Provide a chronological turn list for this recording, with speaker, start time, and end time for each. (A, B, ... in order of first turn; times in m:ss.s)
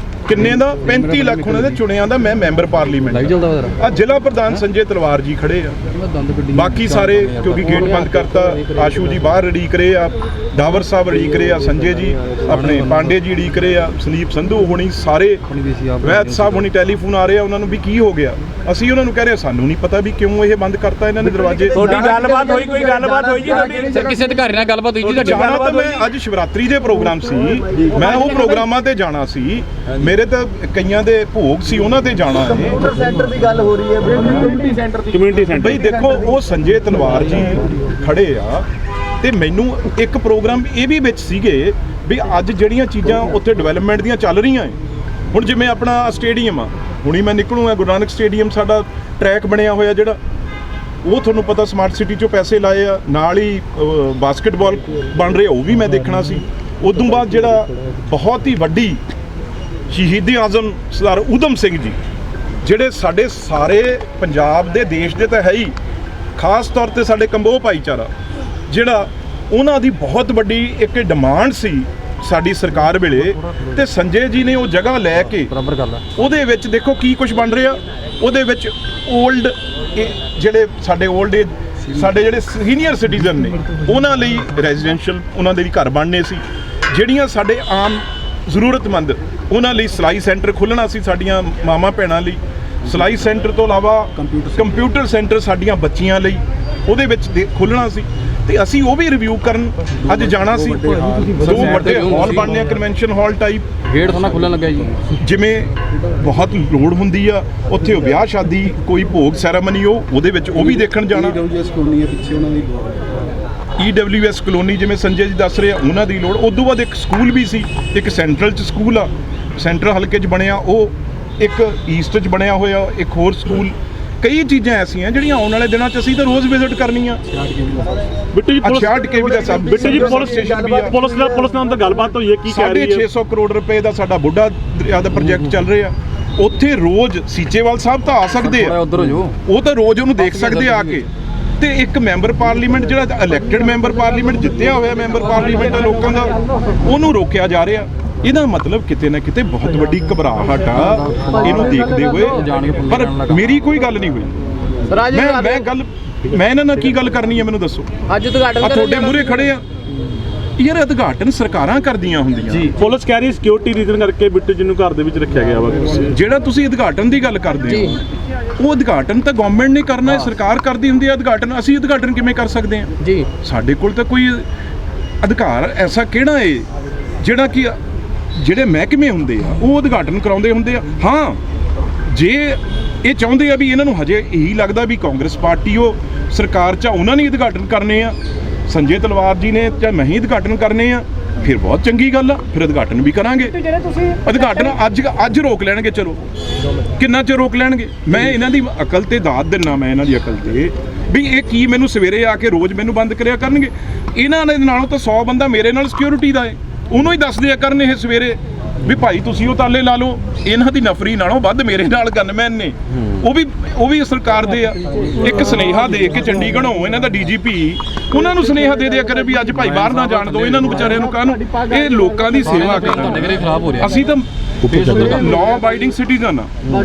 0:00.3-0:05.8 A
0:00.3-0:01.8 B
0:03.1-0:03.7 B
0:06.0-0:08.2 B
0:06.5-0:15.4 A
0:12.5-0:13.1 B
0:15.5-0:16.7 B
0:16.0-0:22.1 A
0:21.4-0:24.3 C
0:21.8-0:24.0 D
0:23.9-0:25.7 B
0:25.0-0:32.9 A
0:32.5-0:34.7 C
0:35.1-0:35.8 D
0:35.6-0:38.6 A
0:35.8-0:36.2 C
0:39.2-0:44.8 A
0:45.3-0:50.2 A
0:51.0-0:59.0 A
0:59.9-1:02.0 A
1:02.6-1:05.7 A
1:06.4-1:08.1 A
1:08.7-1:15.5 A
1:15.2-1:16.0 B
1:16.2-1:43.6 A
1:41.4-1:42.5 B
1:43.9-1:45.0 B
1:45.2-1:51.4 A
1:51.6-1:52.8 B
1:53.8-2:07.2 A
2:08.3-2:13.0 D
2:08.6-2:11.0 A
2:09.1-2:11.5 C
2:12.5-2:18.8 A
2:18.4-2:19.3 B
2:19.4-2:34.3 A
2:20.4-2:21.0 B
2:30.8-2:33.5 B
2:34.9-2:35.7 E
2:35.1-2:37.9 A
2:38.1-2:39.4 E
2:38.6-2:39.6 A
2:40.6-2:42.7 A
2:42.8-2:46.2 D
2:46.1-2:48.0 A
2:47.7-2:48.0 E
2:48.6-2:54.4 A
2:55.2-2:56.7 A
2:57.2-2:57.8 A
2:58.4-3:01.4 A
3:02.1-3:08.1 A
3:08.7-3:13.6 A
3:14.2-3:16.2 A
3:17.0-3:46.5 A
3:39.8-3:40.7 B
3:42.4-3:43.9 B
3:44.7-3:45.2 B